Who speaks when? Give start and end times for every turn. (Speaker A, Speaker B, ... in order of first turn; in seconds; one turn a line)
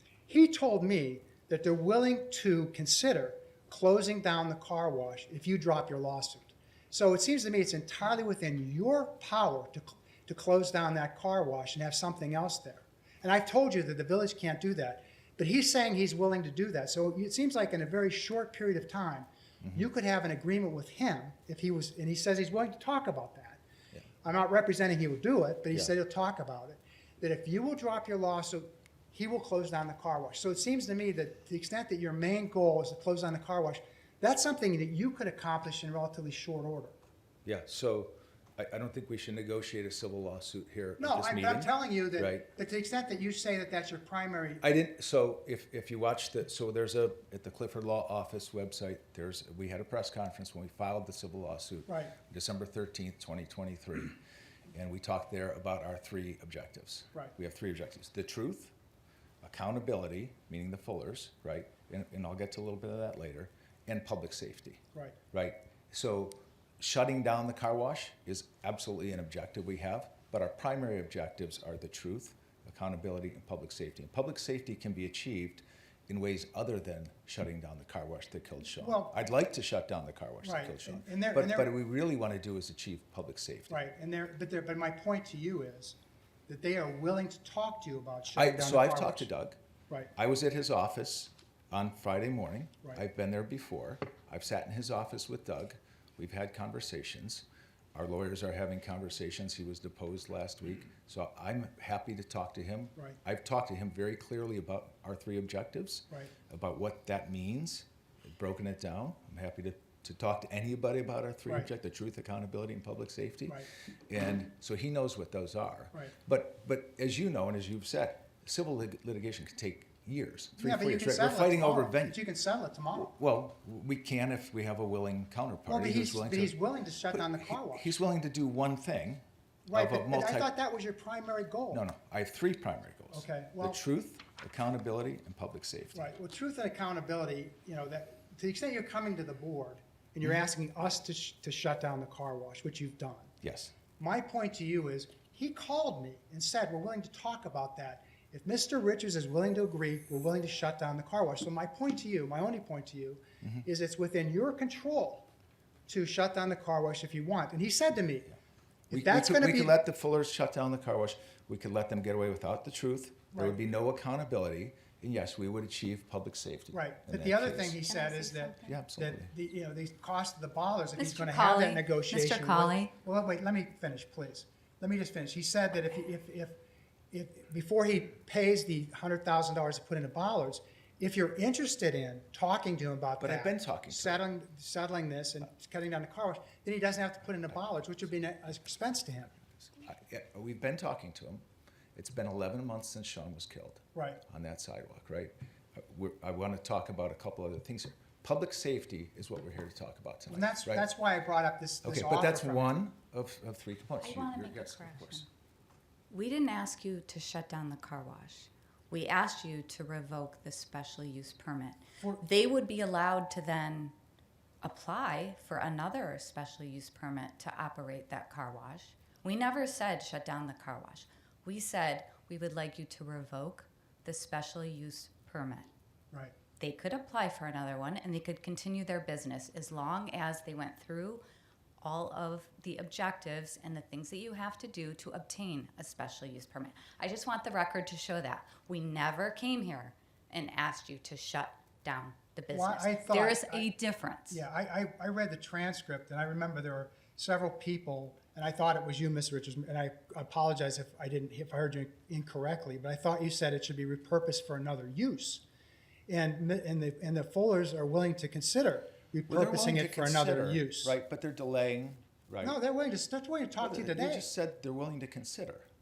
Speaker A: 0.3-23.6
Speaker A: 24.2-37.0
Speaker B: 37.5-42.5
Speaker A: 41.0-44.6
Speaker B: 44.6-54.2
Speaker A: 51.9-52.1
Speaker B: 54.7-58.7
Speaker B: 59.4-83.8
Speaker A: 78.8-79.1
Speaker A: 80.4-81.7
Speaker A: 83.7-86.0
Speaker A: 86.5-89.3
Speaker B: 88.3-89.6
Speaker B: 90.2-122.2
Speaker A: 120.6-123.1
Speaker B: 122.9-126.5
Speaker A: 125.7-128.0
Speaker B: 127.1-130.5
Speaker A: 129.7-131.8
Speaker B: 131.7-136.1
Speaker A: 133.1-133.8
Speaker A: 135.9-143.3
Speaker B: 143.4-143.7
Speaker A: 144.0-155.3
Speaker A: 155.9-158.3
Speaker A: 158.9-159.8
Speaker B: 158.9-167.8
Speaker A: 163.3-163.6
Speaker A: 166.7-176.6
Speaker C: 167.8-168.8
Speaker B: 168.7-169.3
Speaker C: 171.0-172.9
Speaker A: 177.1-189.3
Speaker B: 183.2-184.2
Speaker B: 189.7-191.4
Speaker B: 191.9-200.8
Speaker A: 193.9-194.2
Speaker A: 200.3-202.8
Speaker B: 201.8-205.2
Speaker C: 204.0-205.3
Speaker C: 206.1-213.9
Speaker C: 214.6-225.7
Speaker C: 226.6-231.2
Speaker C: 231.8-244.4
Speaker A: 242.5-243.7
Speaker A: 244.3-255.4
Speaker A: 256.1-260.9
Speaker B: 259.3-262.6
Speaker A: 262.4-264.3
Speaker B: 263.6-265.7